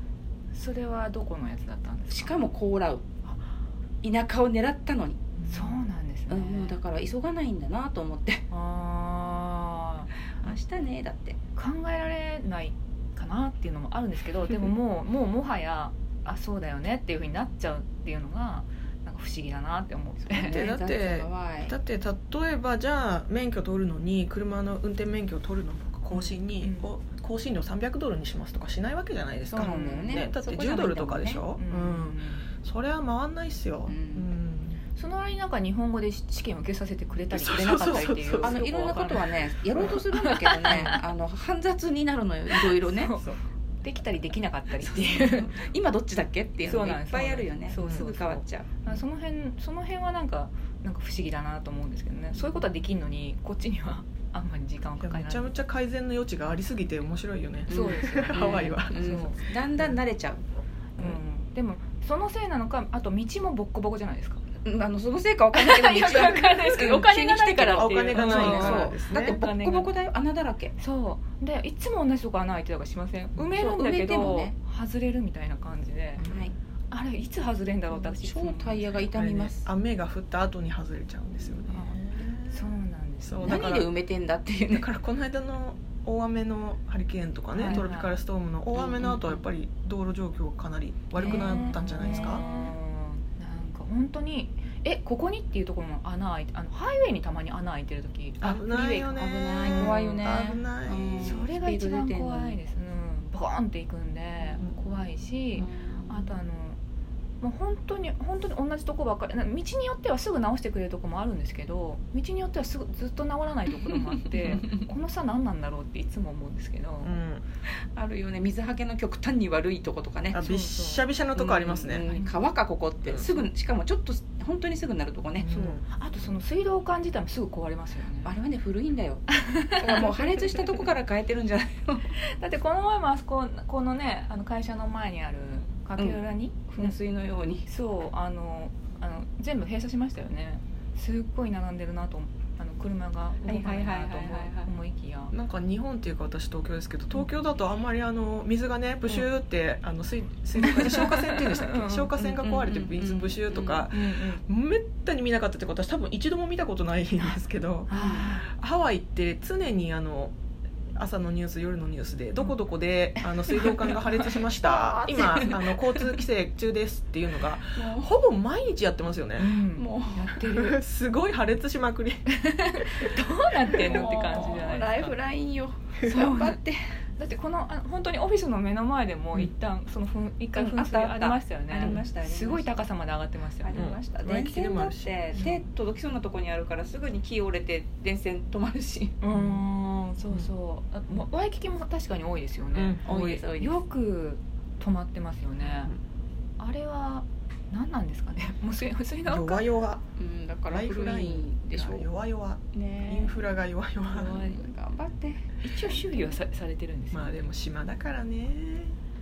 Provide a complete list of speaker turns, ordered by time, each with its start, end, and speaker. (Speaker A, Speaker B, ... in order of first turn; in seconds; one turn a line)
Speaker A: 0.5-2.4
Speaker B: 2.1-3.1
Speaker B: 4.0-5.3
Speaker A: 5.5-6.8
Speaker B: 6.3-8.4
Speaker A: 8.5-10.1
Speaker B: 10.4-11.4
Speaker A: 11.6-20.7
Speaker B: 20.3-21.7
Speaker C: 20.3-34.8
Speaker A: 26.1-26.9
Speaker B: 29.5-31.4
Speaker A: 29.6-30.3
Speaker A: 31.6-32.5
Speaker B: 33.9-34.3
Speaker A: 35.0-40.9
Speaker C: 37.3-38.6
Speaker B: 38.4-43.1
Speaker A: 42.6-45.6
Speaker B: 44.8-48.9
Speaker A: 46.6-55.5
Speaker C: 47.8-48.0
Speaker B: 52.4-52.6
Speaker C: 55.0-59.4
Speaker A: 57.7-59.4
Speaker B: 57.7-60.4
Speaker A: 61.0-64.4
Speaker B: 64.6-70.7
Speaker A: 65.5-69.9
Speaker C: 67.8-69.3
Speaker A: 70.8-76.2
Speaker B: 73.5-74.5
Speaker C: 76.2-76.5
Speaker B: 76.2-76.5
Speaker A: 76.9-79.0
Speaker B: 77.9-79.7
Speaker C: 79.0-82.7
Speaker A: 81.7-83.7
Speaker C: 83.2-83.9
Speaker B: 83.4-84.9
Speaker C: 84.6-92.4
Speaker A: 87.5-88.2
Speaker B: 88.7-89.4
Speaker B: 91.2-92.8
Speaker A: 91.2-100.2
Speaker C: 98.4-101.4
Speaker B: 99.2-102.6
Speaker A: 101.2-106.8
Speaker B: 105.5-106.3
Speaker A: 107.4-117.2
Speaker B: 113.9-114.8
Speaker C: 117.0-117.4
Speaker B: 117.9-120.4
Speaker C: 120.3-122.0
Speaker A: 120.3-121.1
Speaker B: 121.3-125.5
Speaker A: 122.0-122.3
Speaker C: 125.4-125.8
Speaker A: 125.5-128.3
Speaker B: 128.2-132.1
Speaker A: 129.3-130.7
Speaker A: 132.1-137.0
Speaker B: 136.0-137.7
Speaker A: 137.7-145.3
Speaker B: 143.4-144.7
Speaker C: 145.3-160.3
Speaker B: 150.6-151.1
Speaker A: 150.9-152.1
Speaker B: 152.2-153.8
Speaker A: 153.9-154.4
Speaker A: 157.9-158.5
Speaker B: 157.9-158.3
Speaker C: 160.9-169.6
Speaker B: 163.2-166.2
Speaker B: 167.7-168.1
Speaker A: 169.4-170.8
Speaker B: 169.8-170.4
Speaker C: 170.5-172.3
Speaker A: 172.3-175.2
Speaker C: 173.7-174.1
Speaker B: 173.7-176.8
Speaker A: 176.1-176.5
Speaker A: 177.2-183.9
Speaker B: 180.5-182.8
Speaker B: 183.5-189.2
Speaker C: 183.7-185.6
Speaker A: 189.2-193.0
Speaker C: 189.3-189.6
Speaker C: 192.7-193.4
Speaker B: 193.0-193.8
Speaker A: 193.6-195.9
Speaker C: 195.6-196.0
Speaker A: 196.6-199.7
Speaker C: 199.3-200.0
Speaker B: 200.2-202.1
Speaker C: 200.7-204.4
Speaker B: 202.7-203.5
Speaker B: 204.1-206.3
Speaker A: 204.1-204.6
Speaker A: 205.6-207.4
Speaker C: 207.1-208.9